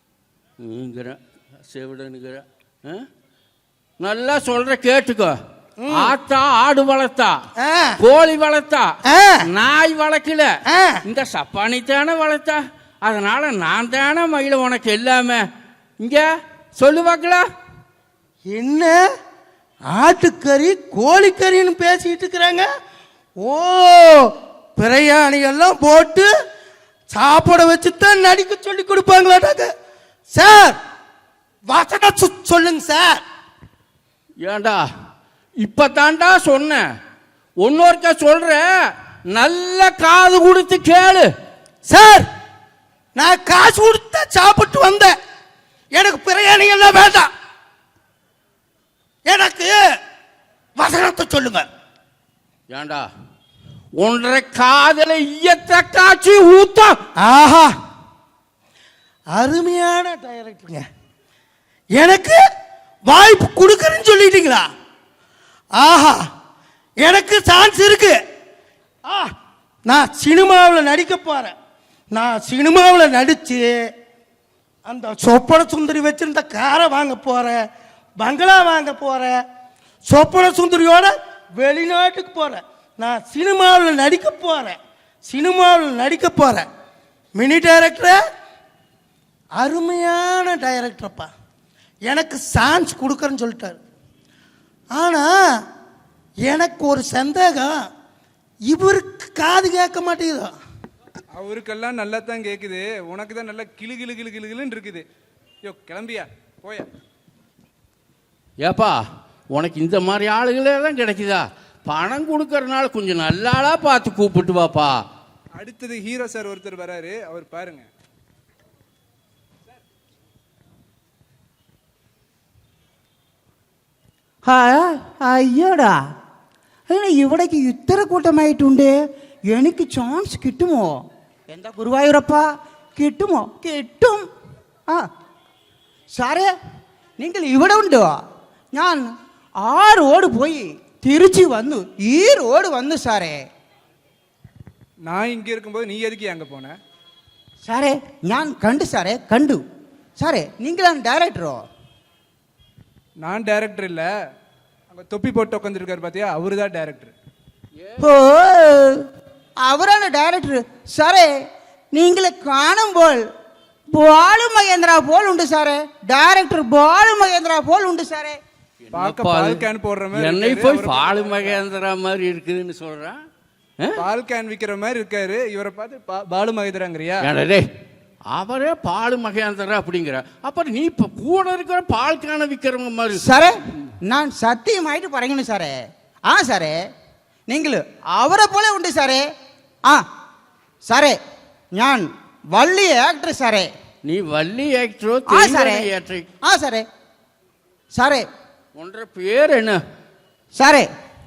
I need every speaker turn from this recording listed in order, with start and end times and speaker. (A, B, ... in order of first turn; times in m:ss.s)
0:00.6-0:01.2 A
0:01.7-0:03.1 A
0:04.0-0:05.4 A
0:05.8-0:06.1 B
0:05.9-0:07.4 A
0:07.6-0:08.0 B
0:08.0-0:08.9 A
0:09.1-0:09.5 B
0:09.4-0:10.5 A
0:10.7-0:11.0 B
0:11.1-0:15.4 A
0:16.0-0:16.3 A
0:16.8-0:17.4 A
0:18.5-0:19.0 B
0:19.9-0:22.7 B
0:23.4-0:24.2 B
0:24.8-0:26.3 B
0:27.1-0:29.7 B
0:30.4-0:30.8 B
0:31.7-0:33.2 B
0:34.4-0:34.9 A
0:35.6-0:36.8 A
0:37.6-0:38.7 A
0:39.4-0:41.3 A
0:41.9-0:42.3 B
0:43.2-0:45.1 B
0:46.0-0:47.3 B
0:49.3-0:49.8 B
0:50.8-0:51.7 B
0:52.7-0:53.1 A
0:54.0-0:57.0 A
0:57.2-0:57.7 B
0:59.4-1:00.8 B
1:02.0-1:02.4 B
1:03.1-1:04.7 B
1:05.8-1:06.2 B
1:07.0-1:08.2 B
1:09.9-1:11.5 B
1:12.1-1:13.7 B
1:14.9-1:17.6 B
1:18.2-1:19.4 B
1:20.1-1:24.8 B
1:25.3-1:26.7 B
1:27.4-1:28.2 B
1:29.6-1:31.3 B
1:32.1-1:33.8 B
1:35.0-1:35.3 B
1:36.5-1:37.8 B
1:38.7-1:40.5 B
1:41.4-1:45.0 C
1:45.7-1:46.9 C
1:48.6-1:49.0 A
1:49.5-1:55.0 A
1:55.6-1:57.9 C
2:04.5-2:06.0 D
2:06.9-2:09.0 D
2:09.5-2:14.3 D
2:16.2-2:16.5 D
2:17.2-2:18.2 D
2:18.7-2:19.1 D
2:19.6-2:23.5 D
2:25.1-2:26.7 C
2:27.6-2:29.6 D
2:30.2-2:31.6 D
2:33.2-2:34.0 C
2:34.9-2:37.1 C
2:37.8-2:38.1 A
2:38.0-2:39.0 D
2:39.6-2:41.3 D
2:41.9-2:43.3 D
2:43.9-2:48.4 D
2:48.9-2:53.2 A
2:48.9-2:51.6 C
2:54.0-2:57.3 C
2:57.2-2:57.7 A
2:58.3-3:03.2 A
3:03.2-3:06.9 D
3:07.5-3:09.3 D
3:10.9-3:11.2 D
3:11.8-3:13.7 D
3:14.0-3:16.3 A
3:15.3-3:15.9 D
3:16.4-3:16.9 D
3:18.0-3:18.3 D
3:18.8-3:19.8 A
3:20.6-3:20.9 D